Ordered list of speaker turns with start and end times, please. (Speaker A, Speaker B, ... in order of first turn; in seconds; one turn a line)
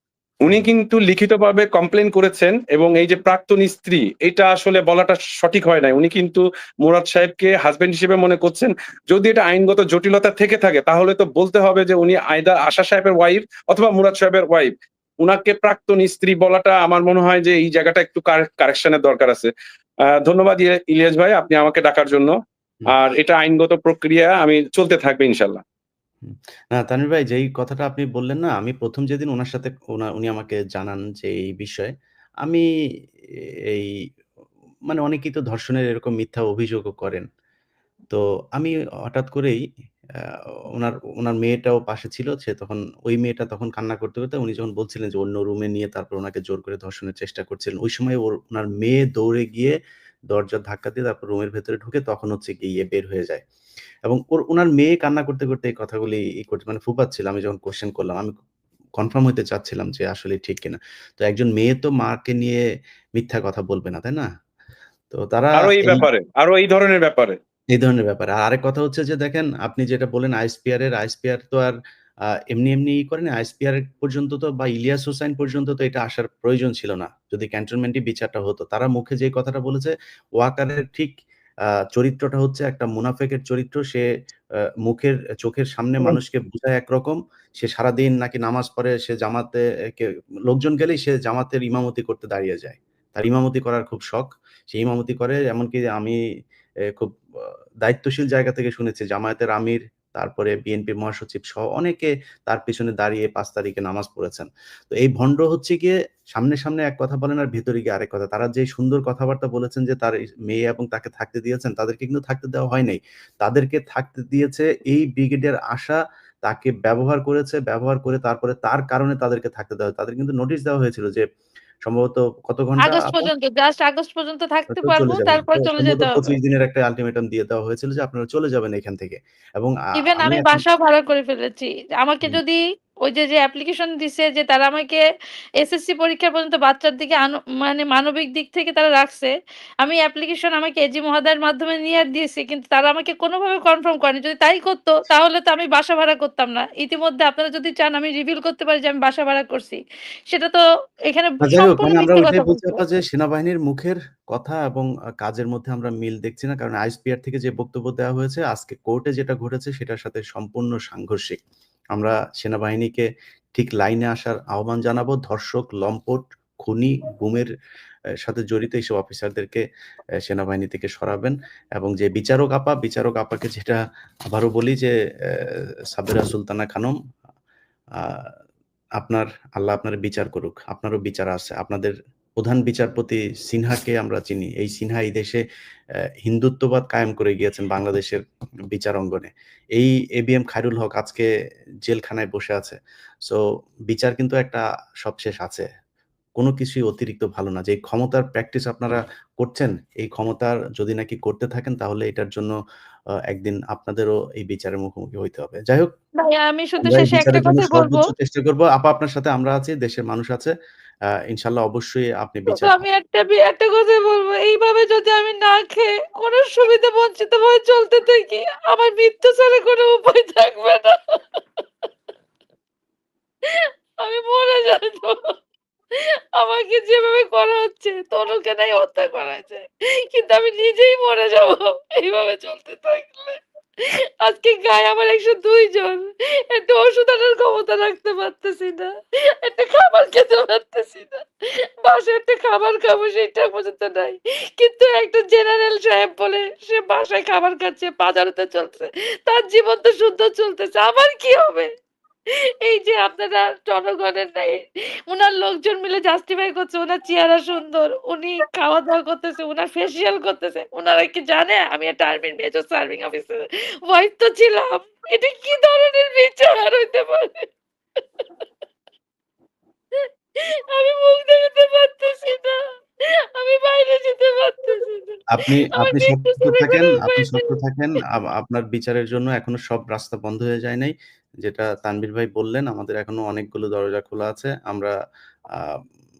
Speaker A: 0.4-19.5
Speaker A: 20.1-22.3
Speaker A: 22.9-25.6
Speaker B: 26.2-31.9
Speaker B: 34.9-37.2
Speaker B: 38.1-39.6
Speaker B: 40.8-49.7
Speaker B: 50.3-53.4
Speaker B: 54.1-58.3
Speaker B: 59.0-62.6
Speaker B: 63.2-64.3
Speaker B: 65.1-66.1
Speaker A: 65.6-67.4
Speaker B: 67.7-71.8
Speaker B: 72.5-81.1
Speaker B: 81.9-84.0
Speaker B: 84.8-96.2
Speaker B: 97.8-121.2
Speaker B: 121.8-123.3
Speaker C: 122.8-126.3
Speaker B: 124.7-130.6
Speaker C: 129.9-135.0
Speaker C: 135.6-152.8
Speaker B: 151.4-161.4
Speaker B: 161.9-167.5
Speaker B: 168.2-169.6
Speaker B: 170.2-173.8
Speaker B: 174.3-176.9
Speaker B: 178.0-178.3
Speaker B: 179.0-185.4
Speaker B: 186.2-188.2
Speaker B: 188.7-191.3
Speaker B: 191.8-195.7
Speaker B: 196.4-202.5
Speaker B: 203.3-205.9
Speaker C: 206.2-208.1
Speaker B: 206.8-210.5
Speaker B: 211.3-212.8
Speaker C: 212.5-221.6
Speaker C: 223.4-225.3
Speaker C: 225.9-251.7
Speaker C: 252.3-267.5
Speaker C: 268.0-268.3
Speaker C: 269.9-272.6
Speaker C: 273.3-275.2
Speaker B: 275.3-284.9
Speaker C: 275.8-277.6